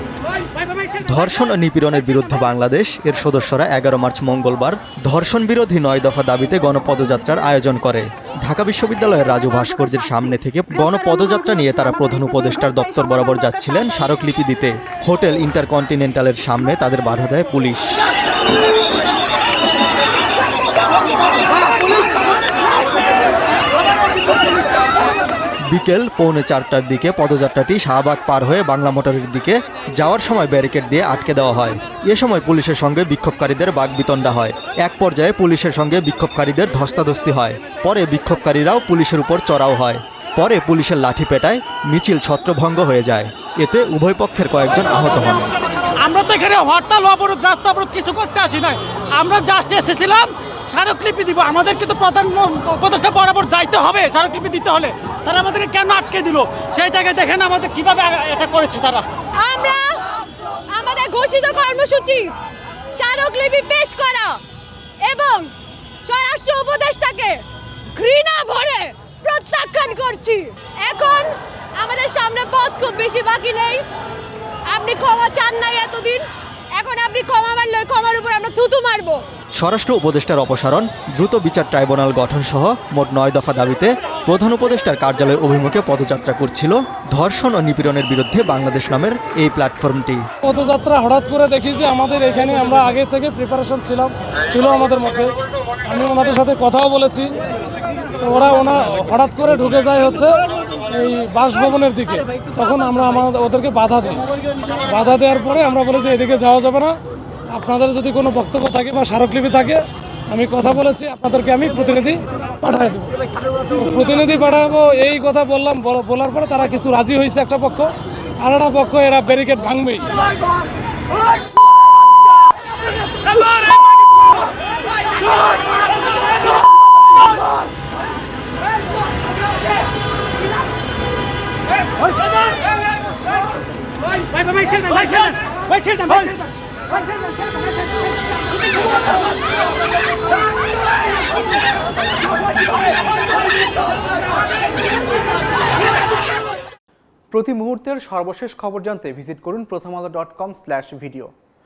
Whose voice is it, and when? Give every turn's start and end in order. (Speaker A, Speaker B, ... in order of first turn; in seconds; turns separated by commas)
Speaker A: 0.9-17.9, Speaker A: 25.7-45.5, Speaker B: 46.0-59.1, Speaker C: 59.4-60.0, Speaker C: 60.7-62.3, Speaker C: 62.9-64.4, Speaker C: 65.0-65.5, Speaker C: 66.0-67.4, Speaker C: 67.9-73.8, Speaker C: 74.7-79.2, Speaker A: 79.6-90.2, Speaker D: 90.4-97.3, Speaker D: 98.2-100.4, Speaker D: 100.9-104.2, Speaker B: 102.2-102.6, Speaker B: 104.2-104.8, Speaker D: 104.9-106.9, Speaker D: 107.5-113.1, Speaker B: 112.1-113.9, Speaker D: 113.8-117.9, Speaker D: 118.4-120.1, Speaker B: 134.3-136.4, Speaker E: 147.3-151.3